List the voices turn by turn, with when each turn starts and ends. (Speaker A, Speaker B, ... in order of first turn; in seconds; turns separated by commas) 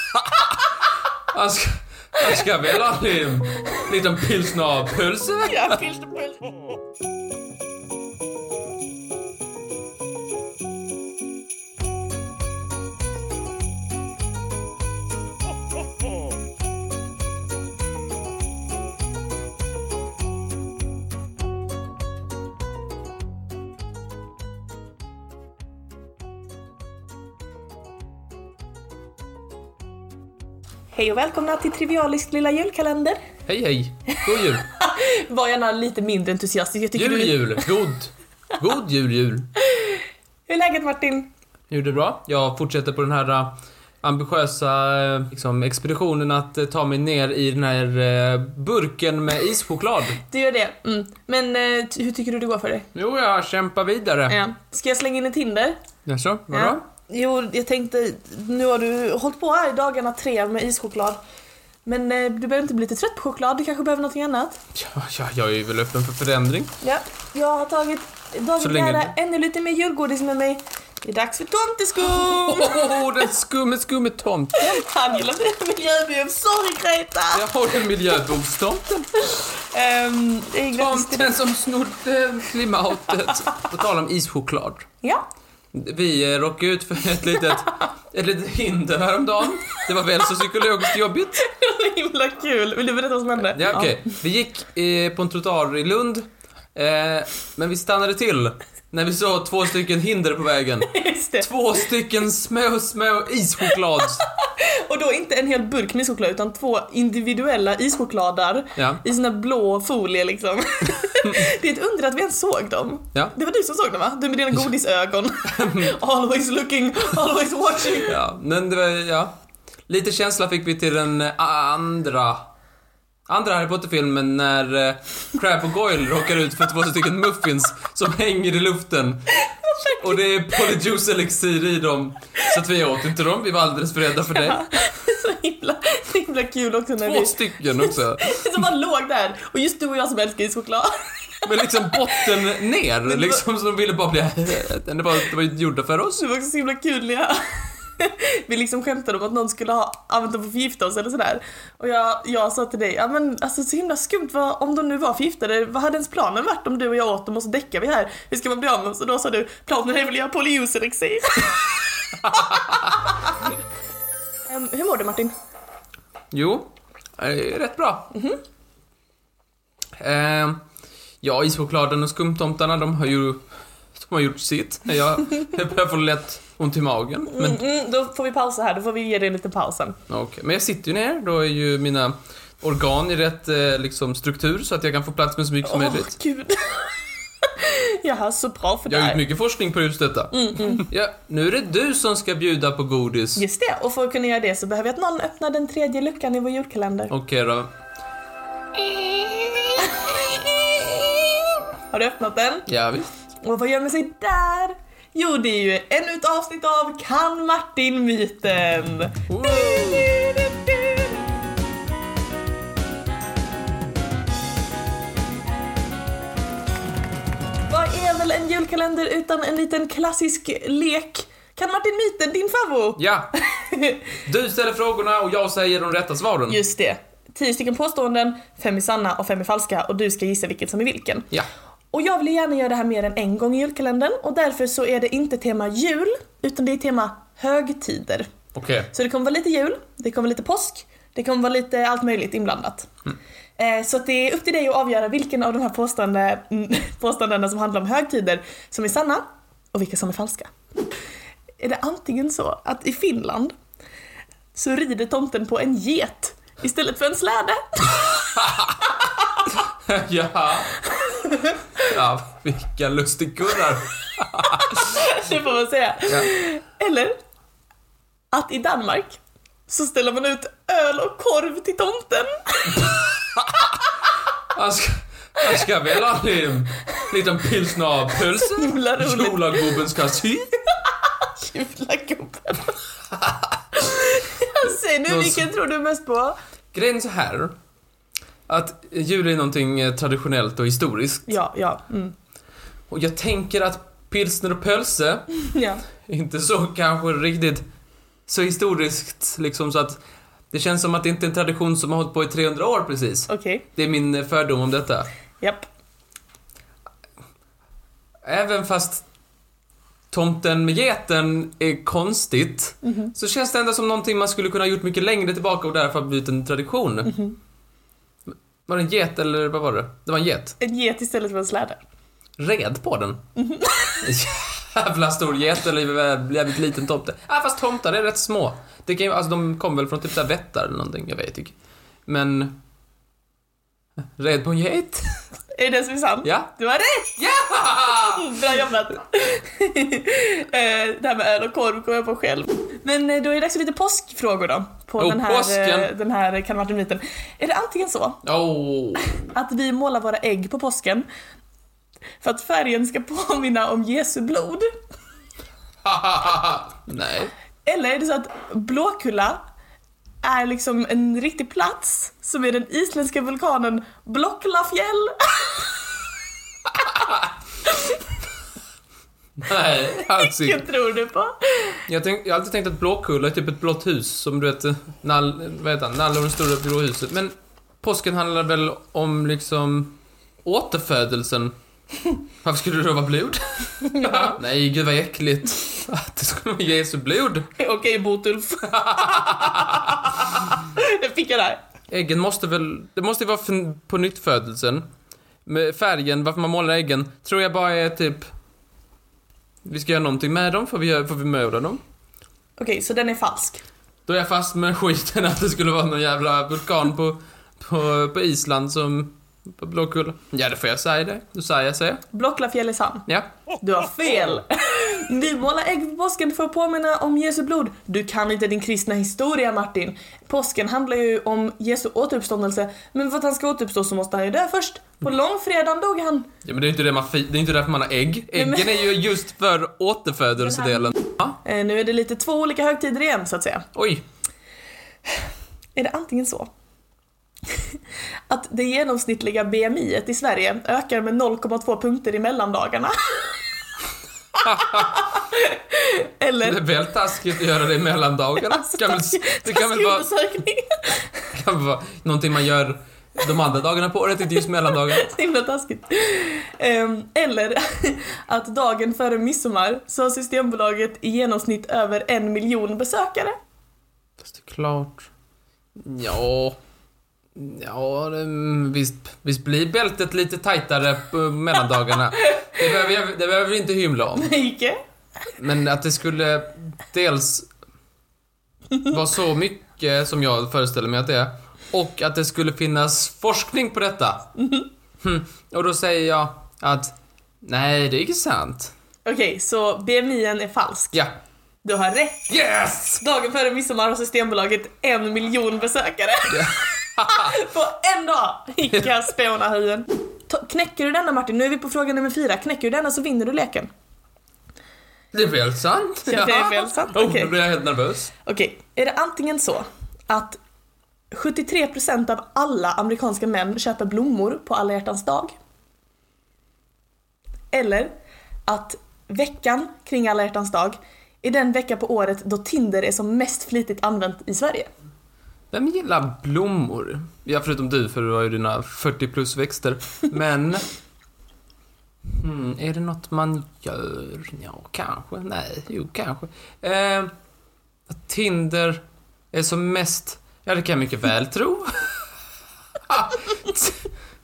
Speaker A: 1.3-5.8, Speaker B: 5.4-6.4, Speaker B: 30.9-33.2, Speaker A: 33.5-34.7, Speaker B: 34.1-37.7, Speaker A: 37.0-39.5, Speaker B: 39.6-41.3, Speaker A: 41.7-50.2, Speaker B: 50.2-52.9, Speaker A: 53.0-54.4, Speaker B: 54.3-55.8, Speaker A: 56.0-56.8, Speaker B: 56.5-61.2, Speaker B: 61.9-64.6, Speaker A: 64.7-66.7, Speaker B: 66.8-73.1, Speaker A: 68.6-69.1, Speaker A: 72.0-74.8, Speaker B: 74.6-77.5, Speaker A: 77.3-79.1, Speaker B: 79.2-81.4, Speaker A: 80.7-84.8, Speaker A: 85.7-91.4, Speaker B: 91.4-94.0, Speaker A: 93.5-104.2, Speaker B: 100.9-101.5, Speaker B: 104.2-118.2, Speaker A: 108.8-109.0, Speaker A: 115.5-116.0, Speaker A: 118.0-119.3, Speaker A: 119.9-122.5, Speaker A: 123.3-129.3, Speaker B: 129.4-130.6, Speaker A: 129.8-134.6, Speaker B: 134.3-142.3, Speaker A: 137.0-138.6, Speaker A: 141.4-146.2, Speaker B: 143.1-143.4, Speaker B: 146.2-163.5, Speaker B: 164.5-165.3, Speaker A: 166.3-168.2, Speaker B: 168.1-168.4, Speaker A: 170.0-170.6, Speaker A: 171.2-173.4, Speaker A: 174.0-177.6, Speaker B: 177.3-180.0, Speaker A: 180.1-186.2, Speaker B: 185.6-189.2, Speaker A: 188.9-193.4, Speaker B: 190.3-190.9, Speaker B: 193.4-197.1, Speaker A: 197.1-197.7, Speaker B: 198.8-202.7, Speaker A: 202.7-203.1, Speaker B: 203.4-211.2, Speaker A: 209.3-210.1, Speaker B: 217.7-224.0, Speaker A: 223.0-223.3, Speaker A: 224.2-226.6, Speaker B: 226.5-231.3, Speaker B: 231.9-238.3, Speaker A: 238.5-238.9, Speaker B: 238.9-242.9, Speaker B: 243.6-250.5, Speaker B: 251.6-253.5, Speaker B: 254.5-258.2, Speaker A: 258.4-258.9, Speaker B: 258.9-259.5, Speaker A: 259.6-260.8, Speaker B: 260.9-261.6, Speaker A: 261.8-264.9, Speaker B: 264.5-267.2, Speaker B: 268.3-273.1, Speaker A: 274.5-280.5, Speaker B: 278.4-279.8, Speaker B: 280.9-282.8, Speaker A: 283.2-283.5, Speaker B: 283.8-286.4, Speaker A: 285.1-285.5, Speaker A: 286.7-287.5, Speaker A: 288.5-291.4, Speaker B: 291.3-292.1, Speaker A: 292.9-295.3, Speaker B: 295.4-295.8, Speaker A: 296.1-297.6, Speaker A: 298.3-300.0, Speaker A: 300.5-305.1, Speaker B: 303.3-303.7, Speaker B: 305.4-305.7, Speaker A: 308.2-309.1, Speaker A: 310.1-317.2, Speaker B: 312.8-313.1, Speaker B: 317.1-317.4, Speaker A: 318.3-320.6, Speaker B: 320.6-321.8, Speaker A: 322.4-323.2, Speaker B: 323.4-324.1, Speaker A: 324.0-331.6, Speaker A: 332.1-332.6, Speaker A: 334.2-335.1, Speaker B: 335.6-337.2, Speaker A: 336.2-336.5, Speaker A: 337.2-338.4, Speaker B: 337.9-348.2, Speaker A: 345.0-345.9, Speaker A: 348.2-349.3, Speaker B: 349.1-351.1, Speaker B: 352.2-354.7, Speaker A: 355.8-357.3, Speaker B: 357.6-359.4, Speaker B: 360.2-365.7, Speaker A: 366.9-367.2, Speaker B: 367.7-368.0, Speaker A: 369.4-370.6, Speaker B: 370.1-371.8, Speaker A: 371.9-381.5, Speaker A: 382.4-387.5, Speaker B: 383.8-384.4, Speaker B: 387.6-391.6, Speaker A: 388.7-389.9, Speaker A: 391.9-394.9, Speaker A: 395.4-398.3, Speaker A: 399.6-401.8, Speaker B: 402.6-403.6, Speaker A: 404.1-412.0, Speaker B: 412.1-413.1, Speaker B: 413.6-426.3, Speaker A: 426.4-431.4, Speaker B: 428.4-428.9, Speaker B: 430.4-433.7, Speaker A: 433.8-434.0, Speaker B: 435.8-436.5, Speaker B: 438.3-443.2, Speaker A: 444.4-445.0, Speaker B: 444.6-446.6, Speaker A: 446.4-450.1, Speaker B: 448.5-451.1, Speaker A: 451.3-455.1, Speaker B: 454.9-463.4, Speaker A: 464.2-465.1, Speaker A: 465.8-466.6, Speaker A: 467.4-474.3, Speaker B: 474.2-474.8, Speaker A: 475.4-477.5, Speaker A: 478.9-484.3, Speaker B: 484.4-484.7, Speaker A: 485.0-488.7, Speaker B: 489.1-491.0, Speaker B: 491.6-492.3, Speaker A: 492.3-493.0, Speaker B: 493.0-503.7, Speaker A: 496.3-497.4, Speaker A: 505.1-508.1, Speaker B: 506.1-507.4, Speaker B: 508.2-510.4, Speaker B: 511.1-515.3, Speaker B: 517.5-517.9, Speaker B: 518.5-524.7, Speaker A: 525.5-530.6, Speaker A: 532.1-537.1, Speaker A: 537.9-542.0, Speaker A: 542.9-543.9